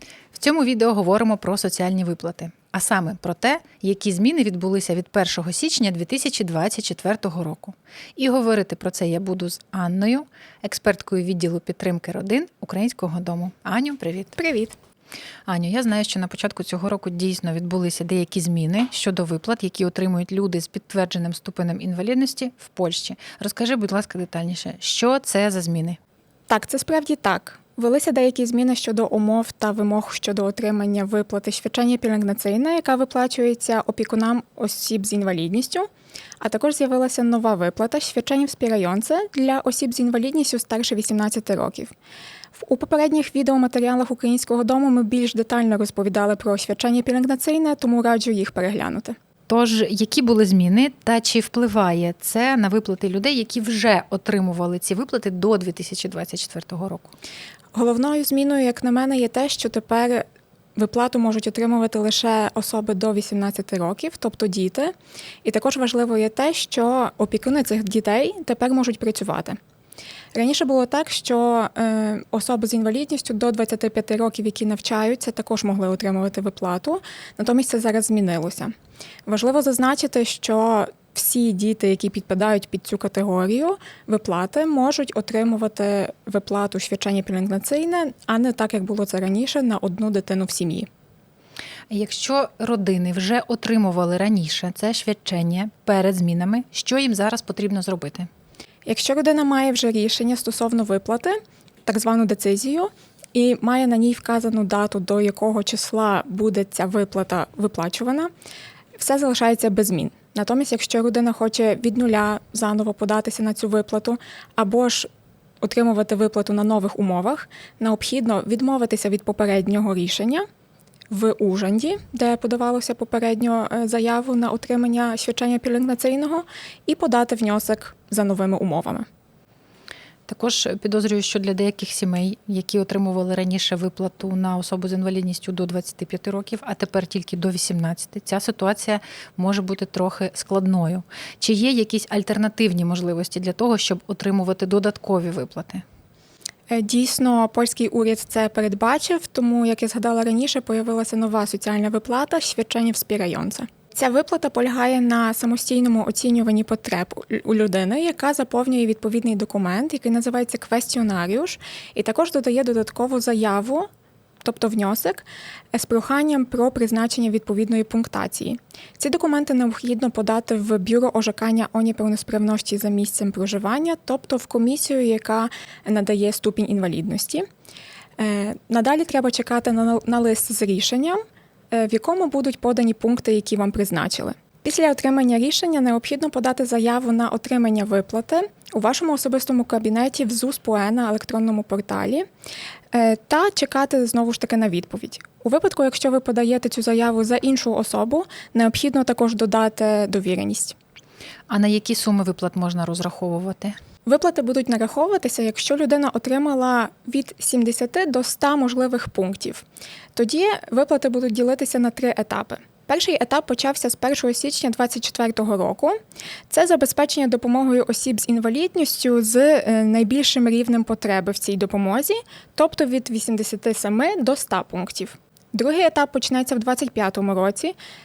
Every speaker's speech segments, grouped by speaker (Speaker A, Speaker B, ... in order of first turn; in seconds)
Speaker A: 0.3-14.3, 15.5-26.0, 49.5-57.1, 91.9-98.3, 130.3-145.8, 201.5-203.8
Speaker B: 14.3-14.8, 26.5-35.9, 36.4-41.9, 42.6-49.1, 57.7-69.6, 70.3-78.7, 79.2-90.9, 98.8-108.3, 109.0-115.1, 115.6-120.4, 121.1-129.1, 146.7-163.9, 164.4-177.4, 178.2-181.2, 181.7-192.2, 192.9-200.7, 204.1-215.9, 216.5-227.7